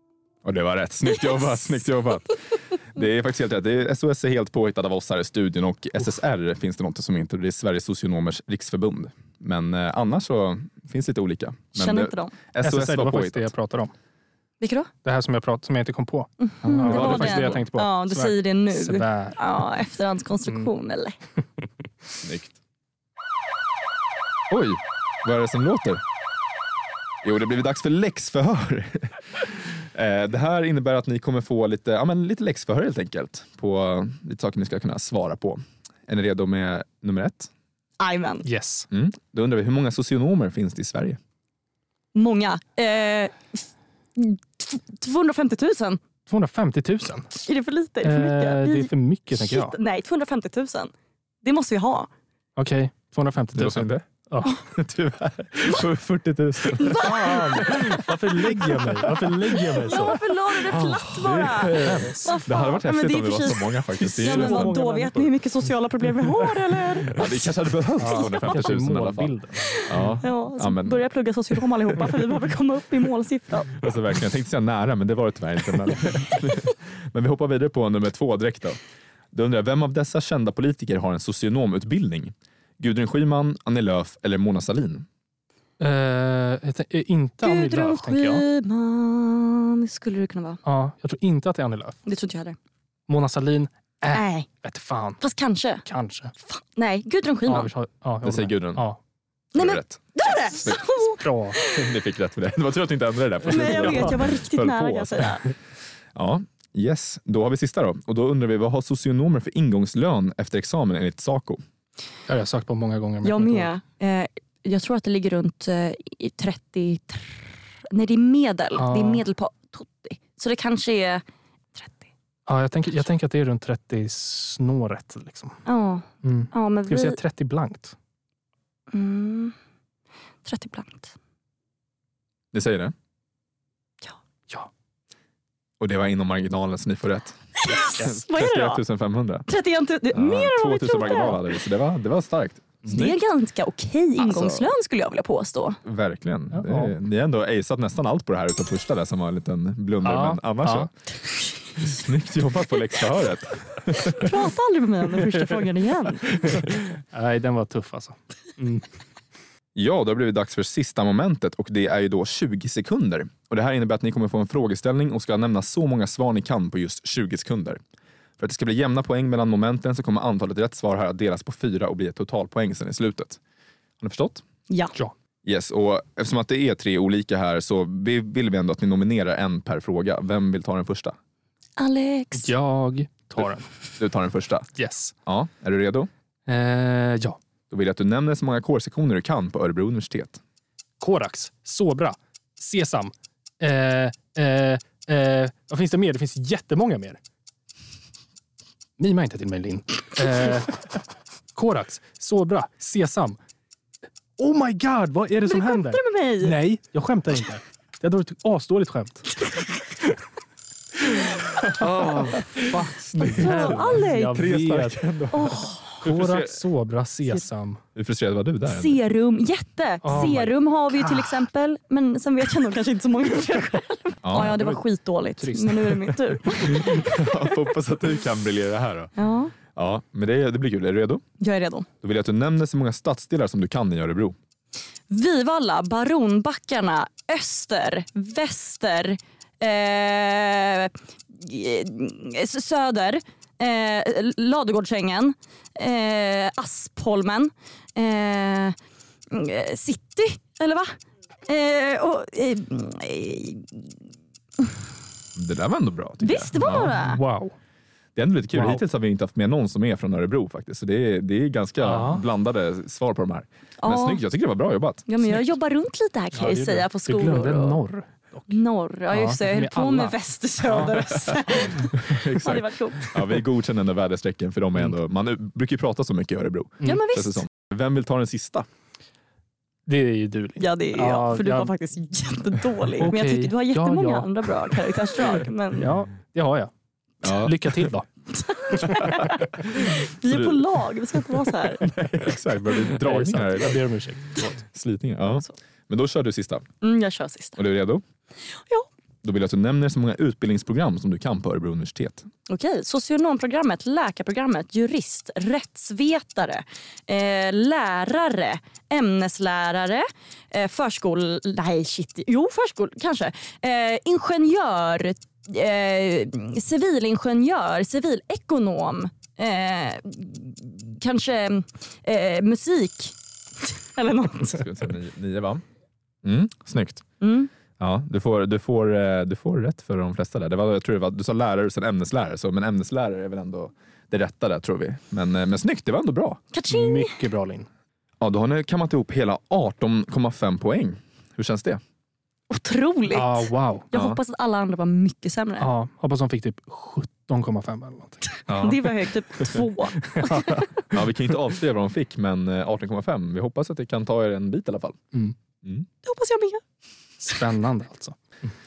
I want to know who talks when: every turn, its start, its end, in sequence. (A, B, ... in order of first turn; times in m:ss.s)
0:00.4-0:13.5 A
0:01.1-0:01.5 B
0:11.7-0:12.3 B
0:12.6-0:13.9 C
0:14.6-0:14.9 B
0:15.0-0:19.4 C
0:16.4-0:21.2 B
0:16.6-0:17.6 A
0:22.2-0:22.6 A
0:24.5-0:26.0 A
0:27.2-0:37.5 A
0:38.0-0:38.4 B
0:38.4-0:38.9 C
0:38.9-0:41.2 A
0:42.1-0:43.3 B
0:44.2-0:46.0 B
0:46.3-0:47.4 C
0:47.4-0:50.9 B
0:48.0-0:49.7 C
0:51.4-0:52.1 B
0:52.6-0:54.6 C
0:53.5-0:54.0 A
0:54.6-1:04.7 A
0:56.8-0:57.8 B
0:57.0-1:00.2 C
0:59.8-1:07.3 B
1:01.6-1:02.4 C
1:04.0-1:05.3 C
1:07.1-1:09.3 A
1:08.0-1:10.2 C
1:08.0-1:08.6 B
1:09.7-1:13.7 B
1:09.9-1:11.0 A
1:13.7-1:18.8 A
1:19.3-1:25.0 A
1:25.8-1:28.4 C
1:27.4-1:30.6 B
1:30.6-1:32.0 C
1:32.0-1:32.6 B
1:33.1-1:35.2 C
1:34.1-1:34.5 B
1:35.2-1:35.8 B
1:35.8-1:36.3 C
1:36.4-1:37.7 B
1:37.4-1:39.0 C
1:38.2-1:38.8 A
1:39.5-1:41.8 B
1:39.6-1:40.8 A
1:41.2-1:41.6 C
1:41.7-1:45.4 A
1:43.4-1:45.5 B
1:43.5-1:44.1 C
1:46.1-1:51.6 A
1:52.3-1:53.7 C
1:53.2-2:01.2 B
1:58.7-1:59.2 C
2:01.8-2:02.0 B
2:02.4-2:05.5 C
2:05.6-2:07.2 B
2:06.2-2:07.9 C
2:08.9-2:09.5 B
2:10.4-2:11.1 B
2:12.5-2:12.9 A
2:15.8-2:17.4 A
2:17.6-2:18.8 B
2:18.0-2:19.5 A
2:19.5-2:21.4 B
2:20.1-2:23.1 A
2:22.8-2:25.8 B
2:24.2-2:24.7 A
2:25.8-2:30.9 A
2:26.5-2:27.0 C
2:30.0-2:30.9 C
2:31.8-2:34.3 A
2:34.1-2:36.5 B
2:36.4-2:38.8 C
2:39.7-2:47.8 A
2:48.4-2:53.4 A
2:54.0-2:54.4 A
2:54.7-2:54.9 B
2:55.4-3:01.1 A
3:01.8-3:02.5 B
3:02.3-3:03.7 C
3:04.0-3:04.7 A
3:04.7-3:05.1 C
3:05.2-3:06.1 A
3:06.5-3:07.4 C
3:07.7-3:10.4 A
3:11.0-3:17.2 C
3:19.0-3:20.9 C
3:21.5-3:23.4 C
3:24.4-3:29.3 C
3:25.4-3:26.6 B
3:31.2-3:36.6 A
3:31.8-3:35.1 C
3:33.2-3:34.4 B
3:35.3-3:35.9 B
3:36.0-3:37.8 C
3:38.0-3:39.0 A
3:38.7-3:47.6 B
3:40.0-3:41.2 C
3:44.2-3:44.6 A
3:44.3-3:44.8 C
3:45.4-3:46.1 C
3:46.7-3:49.1 A
3:49.2-3:49.6 B
3:49.7-3:51.2 A
3:51.4-3:51.9 B
3:52.0-3:54.3 A
3:55.1-4:08.8 B
4:09.3-4:10.9 B
4:11.4-4:13.9 B
4:15.4-4:17.0 A
4:16.2-4:17.2 B
4:16.6-4:17.5 C
4:18.2-4:25.0 A
4:18.5-4:18.8 C
4:21.8-4:22.2 C
4:23.8-4:24.2 B
4:25.1-4:27.8 B
4:26.3-4:28.6 C
4:28.5-4:33.3 B
4:29.1-4:31.8 C
4:31.7-4:38.6 A
4:36.8-4:37.4 B
4:39.8-4:41.7 C
4:40.6-4:45.9 B
4:43.0-4:44.3 C
4:45.8-4:46.7 C
4:47.2-4:47.9 A
4:47.2-4:48.0 C
4:48.3-4:51.8 B
4:49.2-4:50.8 A
4:51.8-4:53.8 A
4:52.7-4:54.6 C
4:54.7-4:56.6 A
4:56.8-4:57.6 B
4:57.6-4:58.0 A
4:59.2-5:02.3 A
5:02.5-5:24.7 B
5:24.5-5:25.6 A
5:26.2-5:27.0 A
5:27.2-5:27.5 B
5:27.8-5:36.4 A
5:36.5-5:37.1 B
5:36.7-5:37.7 C
5:38.2-5:41.8 A
5:42.5-5:45.7 B
5:43.1-5:43.8 C
5:43.9-5:44.2 A
5:45.6-5:48.4 C
5:48.5-5:49.0 A
5:48.5-5:50.7 B
5:50.1-5:50.6 C
5:50.9-5:55.0 A
5:56.0-5:56.6 B
5:57.2-5:58.2 C